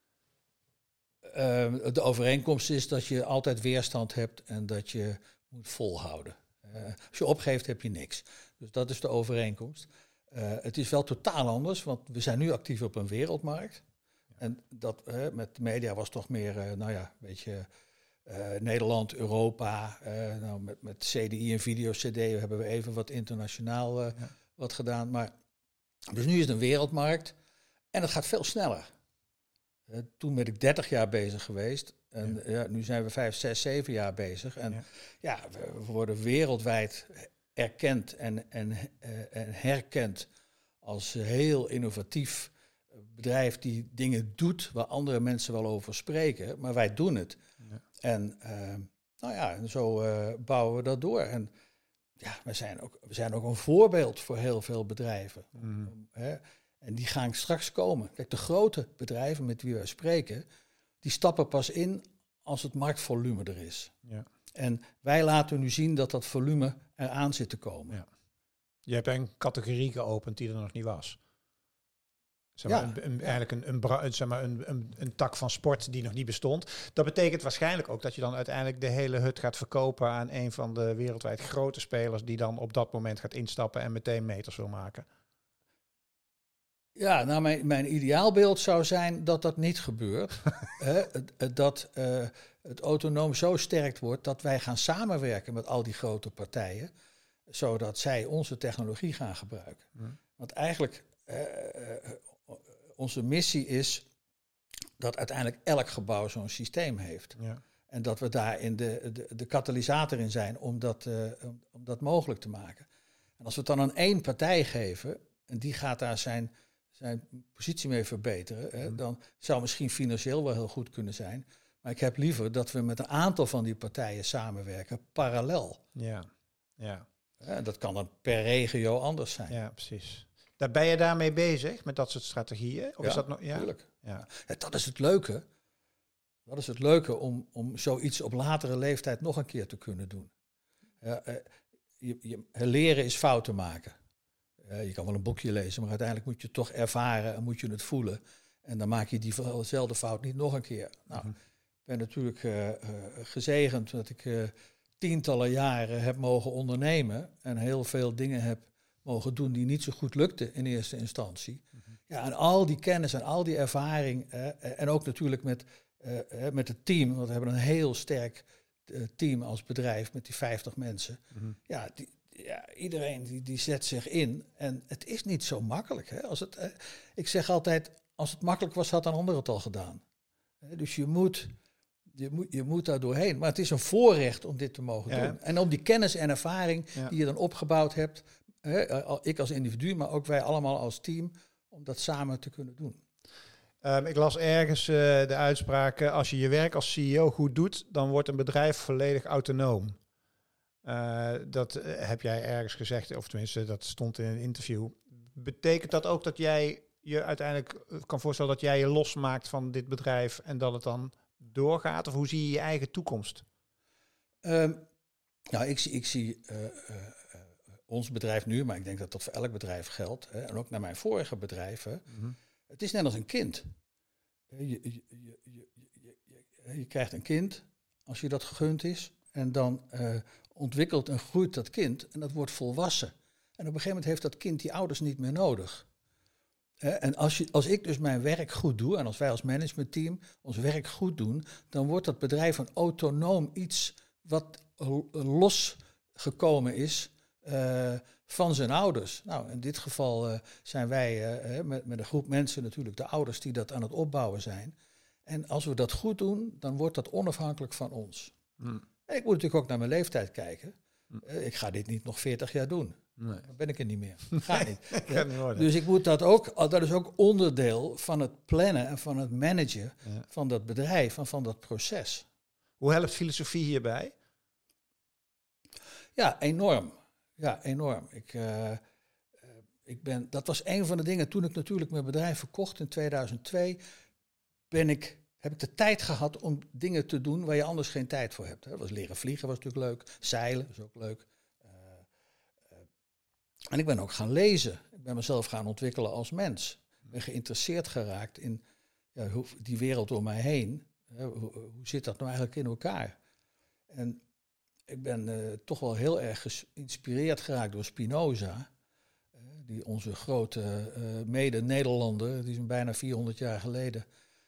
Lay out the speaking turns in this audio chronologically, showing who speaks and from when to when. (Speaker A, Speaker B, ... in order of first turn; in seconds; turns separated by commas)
Speaker A: 1.2-13.8, Speaker A: 14.4-17.7, Speaker A: 18.2-25.3, Speaker A: 26.1-27.3, Speaker A: 27.9-28.9, Speaker A: 29.9-40.3, Speaker A: 40.8-47.4, Speaker A: 48.0-51.5, Speaker A: 52.2-60.4, Speaker B: 55.6-55.9, Speaker A: 61.0-63.9, Speaker A: 64.5-68.0, Speaker B: 68.9-71.2, Speaker B: 72.6-85.0, Speaker A: 72.7-73.0, Speaker A: 87.0-96.9, Speaker A: 97.5-104.0, Speaker A: 105.0-107.4, Speaker A: 107.9-112.9, Speaker A: 113.4-125.8, Speaker B: 125.9-126.3, Speaker B: 126.8-127.0, Speaker A: 127.4-129.6, Speaker B: 129.5-134.2, Speaker A: 133.0-135.4, Speaker A: 136.5-140.3, Speaker A: 141.0-143.9, Speaker A: 144.6-180.0, Speaker A: 180.6-181.5, Speaker A: 182.1-193.0, Speaker B: 185.1-185.4, Speaker B: 193.8-200.0, Speaker B: 200.8-213.4, Speaker A: 214.4-214.8, Speaker A: 215.5-223.7, Speaker A: 224.5-235.9, Speaker A: 236.8-254.7, Speaker A: 255.2-258.3, Speaker A: 259.1-272.2, Speaker B: 264.5-265.7, Speaker B: 272.8-274.1, Speaker A: 276.2-278.8, Speaker A: 279.5-283.8, Speaker A: 284.7-292.0, Speaker A: 293.7-298.6, Speaker A: 299.1-303.1, Speaker A: 303.9-304.2, Speaker A: 304.9-308.7, Speaker A: 309.5-314.0